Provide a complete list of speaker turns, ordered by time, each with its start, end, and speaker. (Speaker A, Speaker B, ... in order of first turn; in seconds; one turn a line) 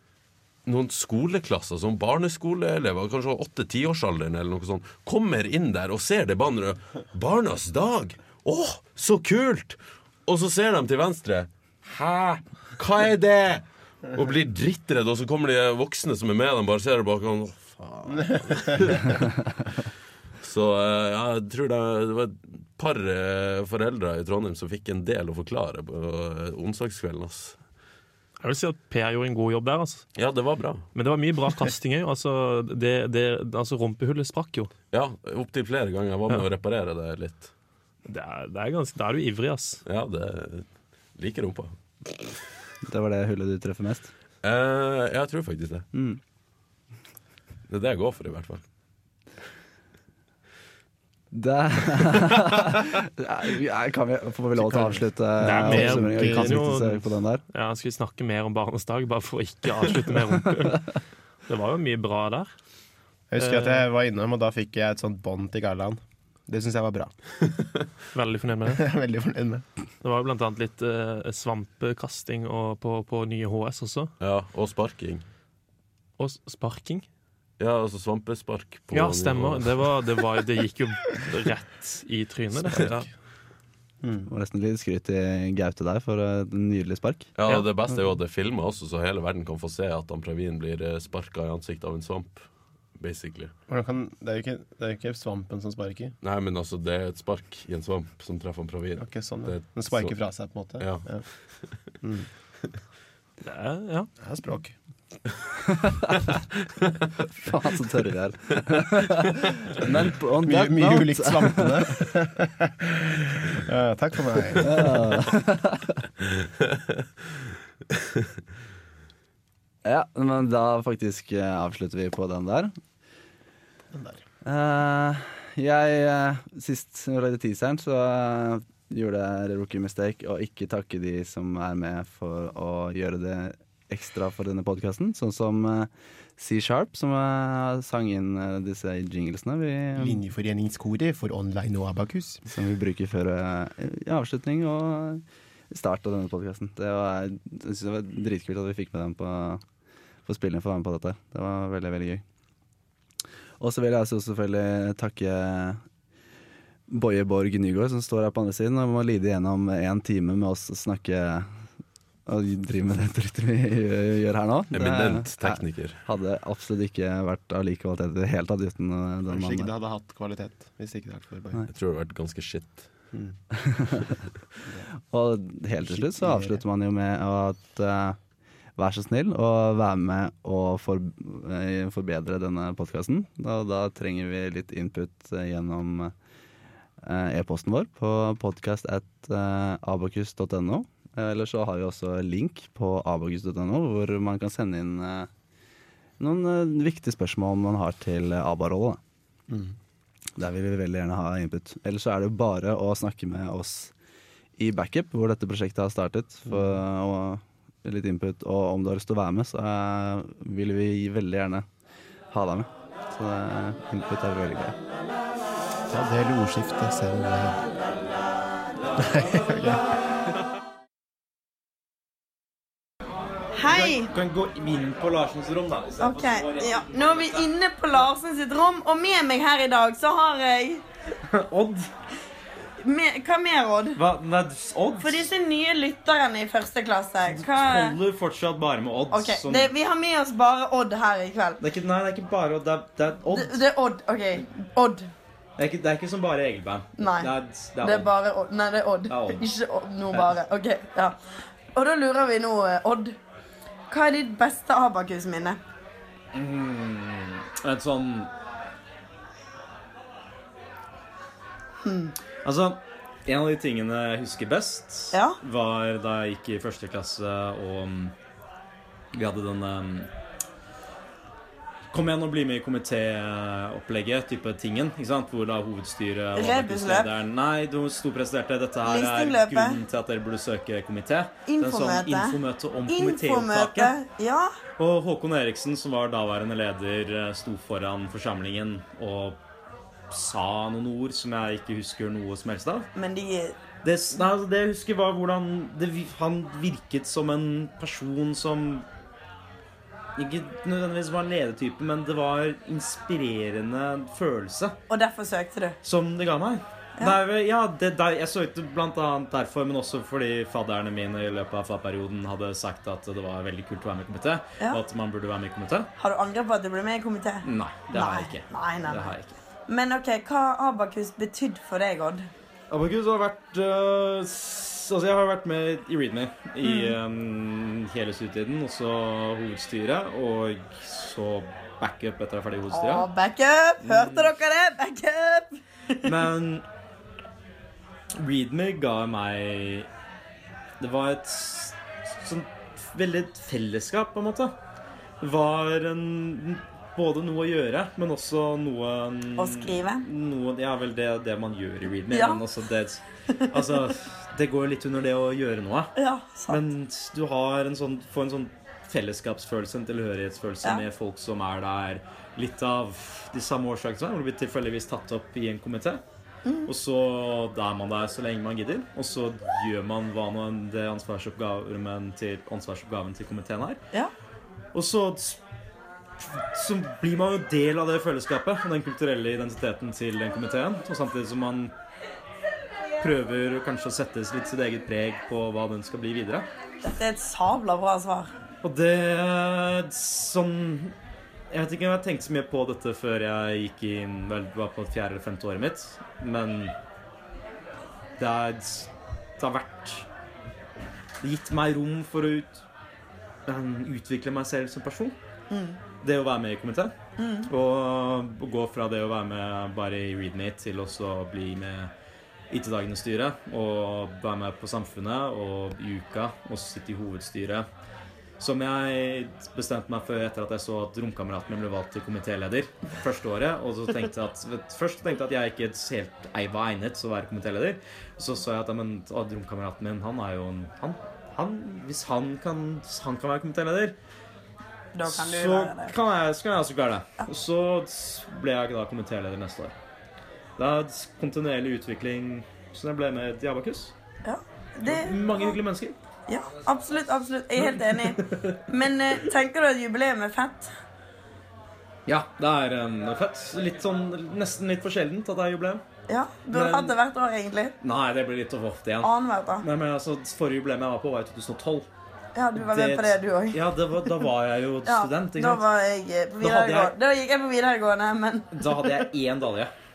Speaker A: 0.7-19.2
Speaker B: 18.1-19.1
Speaker A: 20.4-27.6
Speaker C: 28.4-30.1
Speaker A: 30.2-30.9
Speaker C: 30.9-34.7
Speaker A: 34.9-37.5
Speaker C: 38.1-39.8
Speaker A: 39.9-41.8
Speaker D: 42.8-44.1
Speaker A: 44.4-45.9
Speaker D: 45.9-46.2
Speaker A: 47.7-48.6
Speaker D: 51.3-57.4
Speaker B: 54.6-55.0
Speaker C: 55.4-62.5
Speaker B: 55.6-56.6
Speaker B: 63.3-67.1
Speaker C: 63.4-63.9
Speaker C: 68.1-68.8
Speaker B: 68.7-69.7
Speaker C: 70.0-74.1
Speaker A: 74.2-75.2
Speaker C: 76.2-77.0
Speaker A: 77.6-79.8
Speaker C: 78.9-83.1
Speaker B: 84.0-84.3
Speaker D: 84.3-87.3
Speaker A: 87.4-92.5
Speaker A: 93.0-93.5
Speaker B: 93.7-96.2
Speaker A: 96.2-100.2
Speaker B: 99.0-101.2
Speaker A: 100.8-101.1
Speaker B: 102.0-102.3
Speaker C: 103.4-104.1
Speaker B: 104.2-104.8
Speaker D: 105.7-106.4
Speaker D: 107.3-112.1
Speaker B: 110.4-115.0
Speaker D: 114.6-116.0
Speaker D: 119.8-122.7
Speaker B: 123.9-124.2
Speaker D: 124.4-140.2
Speaker B: 140.0-142.4
Speaker D: 142.5-149.6
Speaker D: 150.3-152.2
Speaker D: 153.6-155.8
Speaker D: 156.9-161.5
Speaker D: 162.3-169.7
Speaker A: 164.7-166.0
Speaker B: 169.3-171.6
Speaker A: 171.7-172.9
Speaker D: 173.6-174.0
Speaker D: 175.1-178.2
Speaker B: 175.8-176.6
Speaker D: 178.8-186.1
Speaker D: 187.0-195.3
Speaker D: 196.2-199.0
Speaker B: 199.5-199.8
Speaker D: 200.4-203.9
Speaker D: 204.6-211.7
Speaker B: 206.5-206.8
Speaker D: 212.3-214.8
Speaker B: 215.9-217.6
Speaker B: 219.0-219.9
Speaker E: 223.6-224.1
Speaker F: 223.6-227.4
Speaker E: 226.0-230.8
Speaker F: 231.3-231.9
Speaker E: 232.8-234.0
Speaker F: 233.9-235.3
Speaker E: 235.0-238.0
Speaker F: 237.3-239.7
Speaker E: 239.1-241.6
Speaker F: 241.6-243.6
Speaker E: 243.3-245.1
Speaker F: 245.6-248.1
Speaker E: 247.0-251.2
Speaker F: 249.1-249.4
Speaker E: 251.7-253.2
Speaker E: 253.9-255.6
Speaker F: 256.3-258.3
Speaker E: 261.8-262.1
Speaker F: 262.4-268.2
Speaker E: 265.1-265.4
Speaker F: 269.1-270.1
Speaker F: 271.9-284.0
Speaker E: 276.4-277.1
Speaker E: 278.8-279.8
Speaker E: 281.5-284.6
Speaker F: 284.8-289.4
Speaker F: 290.1-292.9
Speaker E: 292.9-293.6
Speaker F: 293.8-298.9
Speaker F: 300.2-304.8
Speaker E: 304.9-305.8
Speaker F: 305.8-315.9
Speaker E: 316.0-319.1
Speaker F: 317.4-319.4
Speaker E: 319.7-322.3
Speaker F: 322.7-333.1
Speaker E: 326.6-327.0
Speaker E: 332.7-336.1
Speaker F: 333.8-334.3
Speaker F: 336.0-336.7
Speaker F: 338.2-339.9
Speaker F: 340.8-344.6
Speaker F: 345.2-355.9
Speaker E: 349.4-350.1
Speaker E: 352.1-352.4
Speaker E: 353.3-353.9
Speaker E: 356.0-356.6
Speaker F: 356.5-366.0
Speaker E: 366.4-366.7
Speaker F: 366.7-373.8
Speaker F: 374.7-375.4
Speaker F: 376.2-381.8
Speaker F: 383.0-386.5
Speaker E: 386.8-388.3
Speaker F: 388.6-390.9
Speaker F: 391.5-396.7
Speaker F: 398.2-400.1
Speaker F: 401.2-402.6
Speaker F: 403.5-405.2
Speaker E: 405.5-405.8
Speaker F: 406.0-411.9
Speaker E: 407.2-407.5
Speaker F: 412.5-417.7
Speaker F: 418.4-434.0
Speaker E: 434.9-435.9
Speaker F: 435.0-439.8
Speaker F: 440.6-443.9
Speaker E: 444.2-445.6
Speaker F: 444.8-446.0
Speaker E: 446.3-450.7
Speaker F: 447.6-448.6
Speaker F: 452.1-455.8
Speaker E: 456.1-457.8
Speaker F: 456.5-456.9
Speaker F: 457.8-461.9
Speaker E: 459.0-459.7
Speaker E: 462.4-464.2
Speaker F: 462.6-465.7
Speaker E: 464.9-469.0
Speaker F: 466.4-466.9
Speaker F: 468.5-469.7